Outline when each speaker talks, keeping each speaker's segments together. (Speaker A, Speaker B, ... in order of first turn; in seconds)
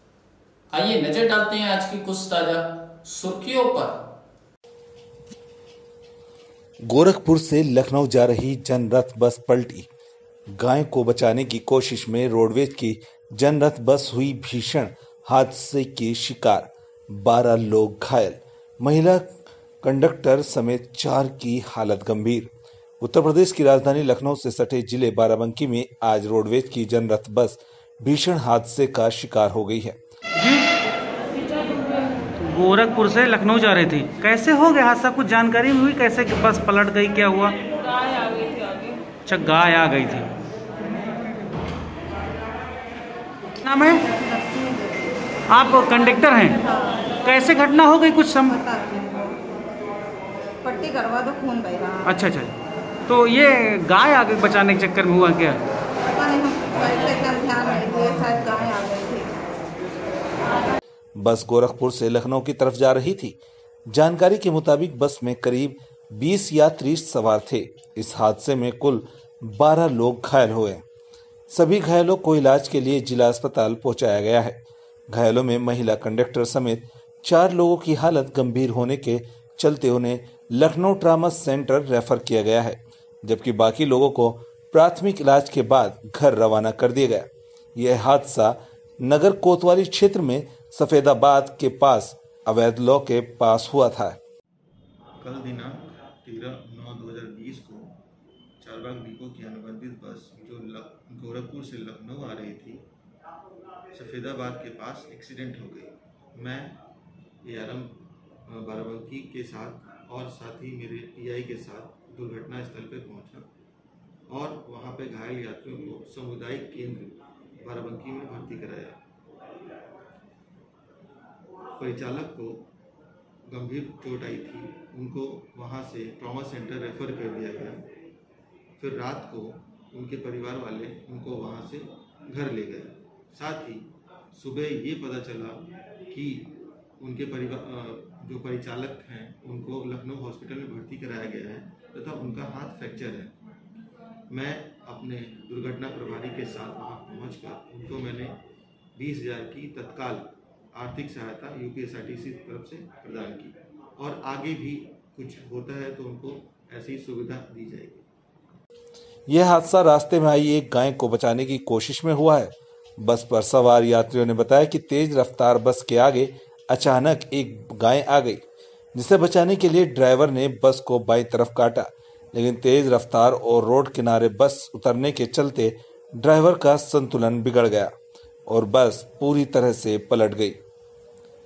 Speaker A: 0.7-4.0
Speaker B: 6.8-9.9, 10.5-19.3, 19.8-22.5, 23.0-30.0, 61.2-63.4, 63.9-70.8, 71.5-94.2, 159.3-168.4, 168.9-177.9, 178.5-180.6
Speaker C: 30.4-30.7, 32.3-37.6, 39.2-40.3, 43.6-44.1, 45.5-46.6, 47.2-48.6, 52.0-52.5, 53.1-55.6
Speaker D: 44.1-45.2, 46.6-47.1, 48.5-49.4, 50.6-52.1, 56.1-59.3
Speaker E: 95.2-98.0, 98.6-102.8, 103.9-106.8, 107.4-113.5, 114.3-119.0, 121.8-122.7, 123.5-127.9, 128.8-143.3, 144.3-148.4, 149.0-158.0